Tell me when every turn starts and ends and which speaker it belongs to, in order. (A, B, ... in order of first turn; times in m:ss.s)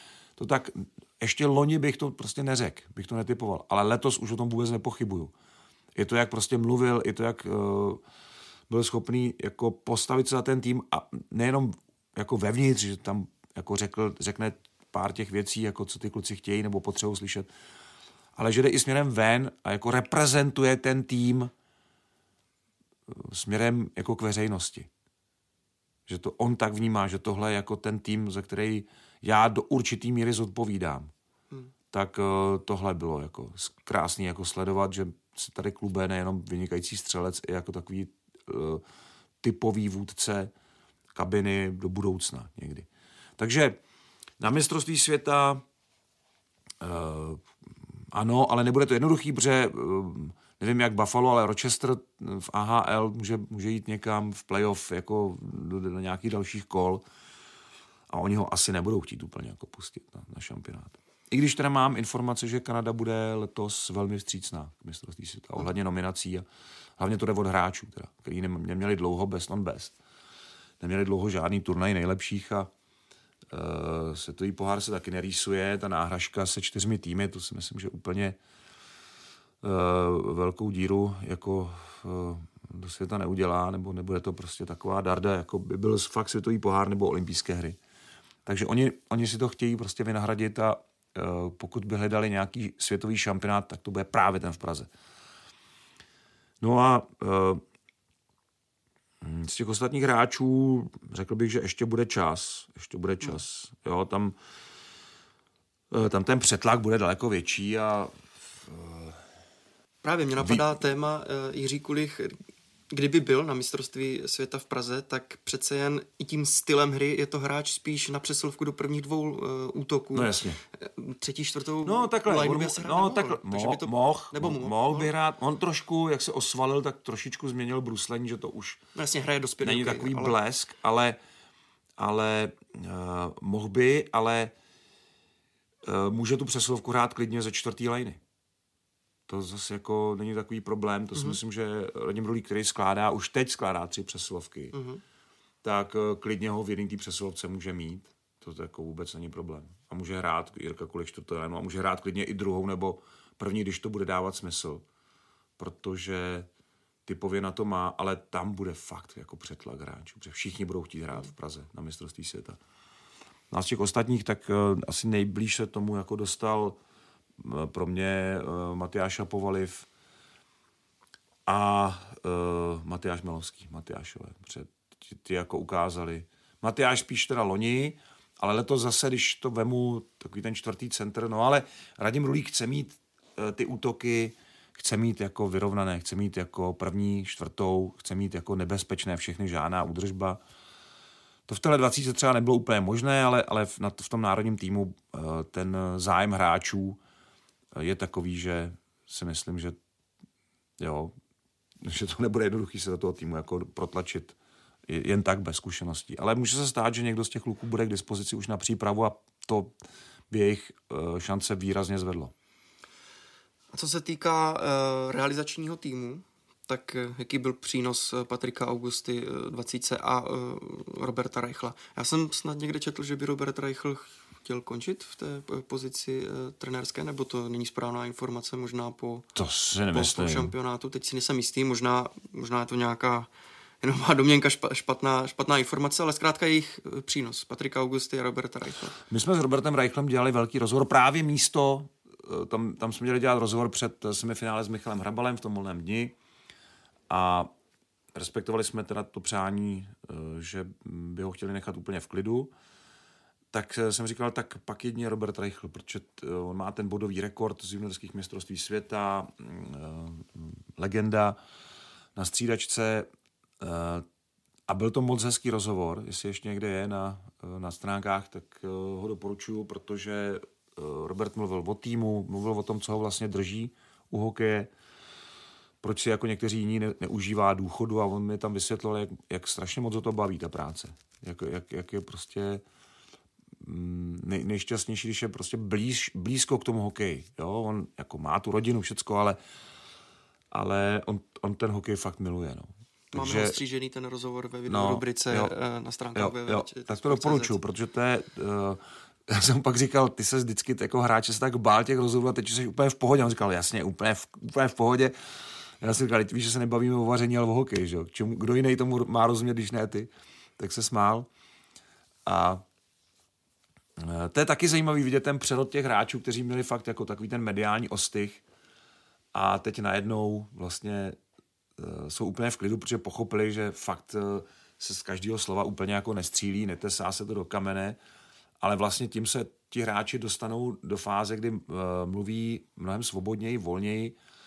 0:00.4-0:05.3 A
0:06.0-0:08.0 A
0:08.7-0:17.5 A
0:18.4-0:21.5 A
0:23.1-0:24.9 A
0:26.1-0:31.1 A
0:31.9-0:38.8 A
0:39.4-0:40.5 A
0:41.1-0:42.9 A
0:43.4-0:43.8 A
0:44.4-0:45.6 A
0:46.8-0:47.5 A
0:48.1-0:57.0 A
0:58.1-1:06.4 A
1:07.0-1:10.0 A
1:10.8-1:12.7 A
1:13.5-1:18.4 A
1:19.6-1:27.8 A
1:28.4-1:34.9 A
1:36.6-1:37.6 A
1:39.2-1:44.4 A
1:45.9-1:49.2 A
1:50.0-1:52.4 B
1:50.4-1:50.6 A
1:52.9-2:05.1 B
2:00.1-2:00.6 A
2:01.8-2:08.8 A
2:08.9-2:10.4 B
2:09.6-2:11.2 A
2:12.0-2:14.5 A
2:15.8-2:18.2 A
2:19.3-2:24.8 A
2:24.7-2:25.0 B
2:25.6-2:34.8 A
2:35.6-2:36.5 A
2:37.0-2:42.6 A
2:43.5-2:46.8 A
2:47.4-2:49.9 A
2:51.4-3:10.4 A
3:11.5-3:17.0 A
3:17.8-3:19.8 A
3:20.8-3:21.1 A
3:21.8-3:24.4 A
3:24.9-3:29.7 A
3:30.3-3:32.3 A
3:33.7-3:49.3 B
3:49.3-3:50.5 A
3:49.9-3:53.3 B
3:53.8-3:59.0 B
3:59.1-4:06.1 A
4:07.1-4:07.5 A
4:08.1-4:12.5 A
4:13.5-4:21.4 A
4:22.2-4:23.1 A
4:23.6-4:24.0 A
4:24.7-4:34.7 A
4:35.8-4:42.6 A
4:43.6-4:49.4 A
4:50.5-4:53.6 A
4:53.1-4:57.6 B
4:54.7-4:55.5 A
4:56.1-5:05.1 A
5:05.8-5:11.3 A
5:12.2-5:12.6 A
5:14.0-5:18.4 A
5:19.3-5:21.2 A
5:21.8-5:28.0 A
5:28.6-5:34.2 A